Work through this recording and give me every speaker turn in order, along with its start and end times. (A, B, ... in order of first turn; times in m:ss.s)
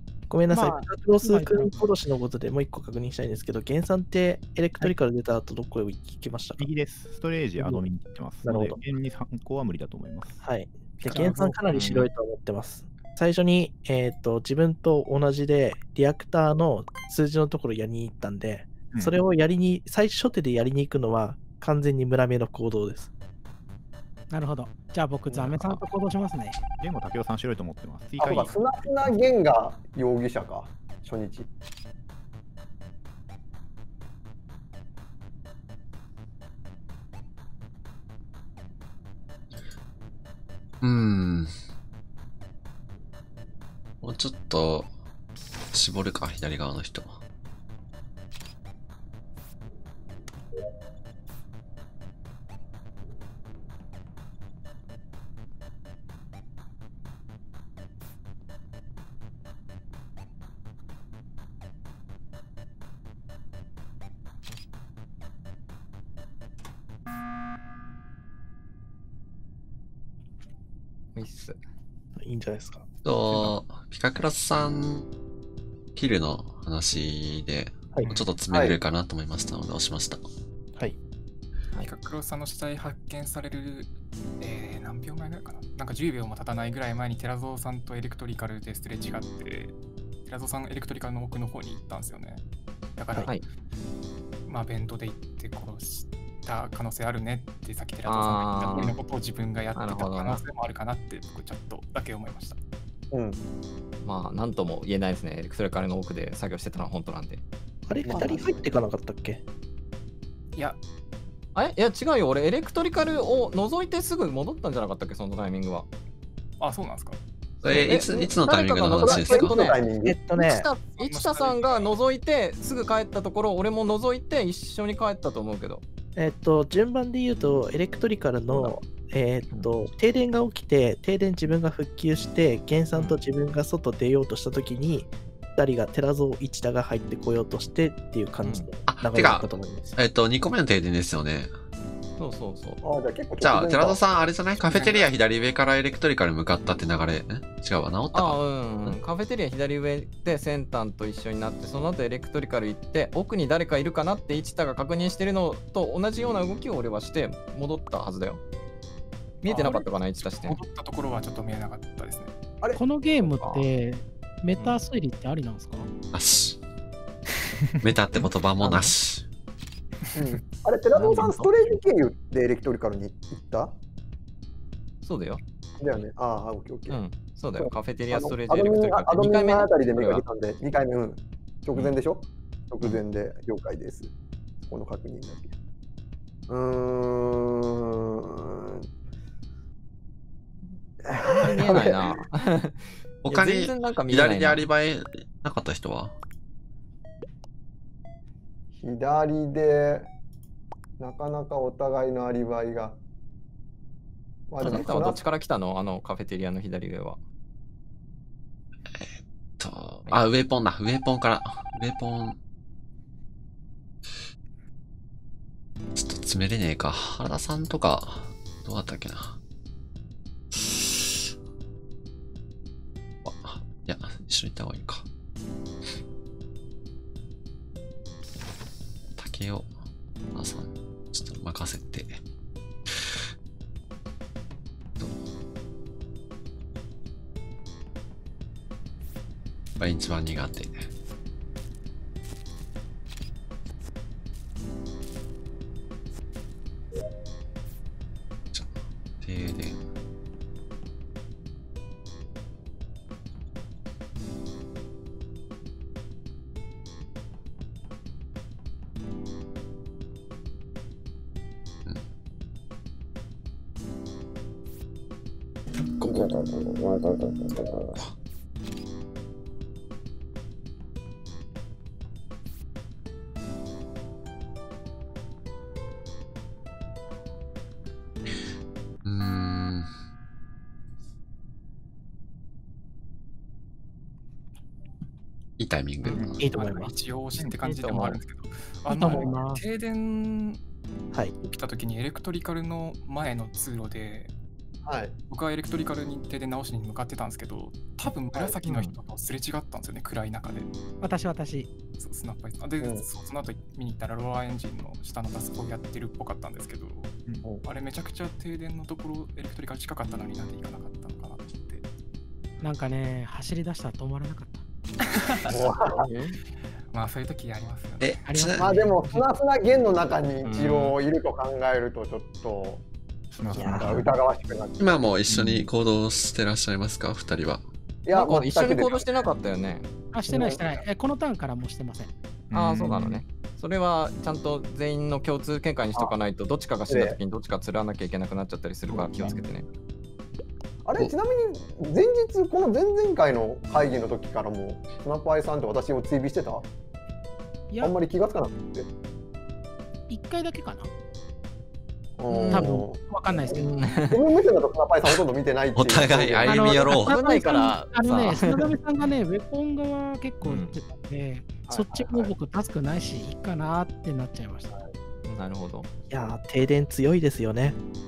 0:00.3-0:06.7 A
0:00.5-0:01.9 B
0:06.6-0:10.4 C
0:07.6-0:07.8 A
0:08.4-0:08.8 A
0:10.4-0:23.1 A
0:11.1-0:11.6 D
0:11.1-0:11.5 B
0:11.7-0:12.1 E
0:18.9-0:19.2 C
0:24.3-0:26.6 B
0:25.3-0:25.8 E
0:26.8-0:29.1 C
0:28.2-0:31.5 F
0:40.8-0:41.5 G
0:44.0-0:44.9 G
0:45.7-0:47.2 G
1:11.2-1:11.6 E
1:12.2-1:12.9 A
1:13.0-1:15.1 G
1:13.1-1:13.6 C
1:16.0-1:20.2 G
1:18.5-1:18.8 F
1:21.8-1:29.8 D
1:30.3-1:32.4 D
1:33.0-1:33.4 D
1:34.5-1:42.6 D
1:38.1-1:39.0 E
1:39.8-1:40.4 E
1:43.1-1:43.4 F
1:44.0-1:47.4 E
1:47.9-1:49.4 A
1:48.0-1:48.6 F
1:51.6-1:55.9 E
1:56.6-1:57.2 D
1:57.6-1:59.6 G
1:57.7-1:58.4 F
1:57.7-2:05.8 E
1:59.0-2:00.2 F
2:00.0-2:00.7 A
2:01.0-2:01.9 D
2:06.2-2:20.0 A
2:12.9-2:13.2 E
2:18.4-2:18.7 E
2:18.8-2:21.5 G
2:22.2-2:22.8 E
2:22.8-2:24.0 F
2:23.4-2:28.4 G
2:24.7-2:25.1 D
2:28.1-2:38.4 E
2:39.4-2:40.6 E
2:39.4-2:42.3 D
2:42.8-2:45.9 B
2:43.2-2:43.7 E
2:46.1-2:46.6 G
2:47.8-2:49.2 G
2:48.6-2:48.9 E
2:50.2-2:53.8 F
2:51.0-2:51.5 E
2:55.0-2:55.4 E
2:55.8-2:57.0 F
2:56.9-3:00.2 E
2:57.6-3:05.5 F
3:06.5-3:08.9 F
3:11.0-3:12.2 F
3:11.3-3:14.7 E
3:13.2-3:16.1 G
3:18.8-3:20.1 F
3:21.0-3:23.0 F
3:24.5-3:25.2 F
3:24.6-3:27.2 E
3:28.9-3:32.4 G
3:36.0-3:39.4 G
3:40.5-3:41.2 G
3:43.2-3:45.0 G
3:49.2-3:49.7 G
3:50.4-3:52.2 G
3:59.8-4:00.9 G
4:08.5-4:09.8 G
4:39.0-4:39.9 G
4:45.6-4:46.3 G
4:46.1-4:50.6 D
4:46.4-4:47.0 A
4:47.7-4:48.1 E
4:48.9-4:49.6 B
4:51.4-4:54.3 D
4:54.8-4:55.2 F
4:55.3-5:00.7 D
4:58.6-4:59.0 E
5:01.0-5:01.7 B
5:02.0-5:07.1 D
5:02.8-5:03.0 F
5:07.6-5:11.9 D
5:12.6-5:14.6 B
5:15.2-5:15.7 D
5:15.5-5:16.1 F
5:16.0-5:16.4 E
5:16.9-5:18.2 D
5:18.0-5:18.6 G
5:18.3-5:19.1 B
5:18.6-5:22.8 F
5:20.4-5:21.0 E
5:23.3-5:24.1 C
5:23.5-5:24.0 A
5:23.6-5:25.1 F
5:24.8-5:27.6 G
5:25.3-5:25.7 C
5:28.0-5:29.3 F
5:28.1-5:29.9 E
5:30.1-5:32.1 B
5:30.2-5:30.8 F
5:32.5-5:33.2 C
5:32.5-5:39.7 E
5:36.9-5:37.2 F
5:38.9-5:39.4 C
5:40.8-5:46.7 F
5:47.7-5:48.0 B
5:47.8-5:48.9 F
5:50.1-5:50.9 B
5:52.2-5:56.6 F
5:52.3-5:52.7 E
5:52.5-5:53.7 B
5:53.5-5:54.2 E
5:55.7-5:57.2 G
5:56.4-6:04.8 B
5:56.9-5:58.7 E
6:00.4-6:00.7 E
6:01.7-6:02.3 F
6:05.3-6:05.9 E
6:06.1-6:07.8 A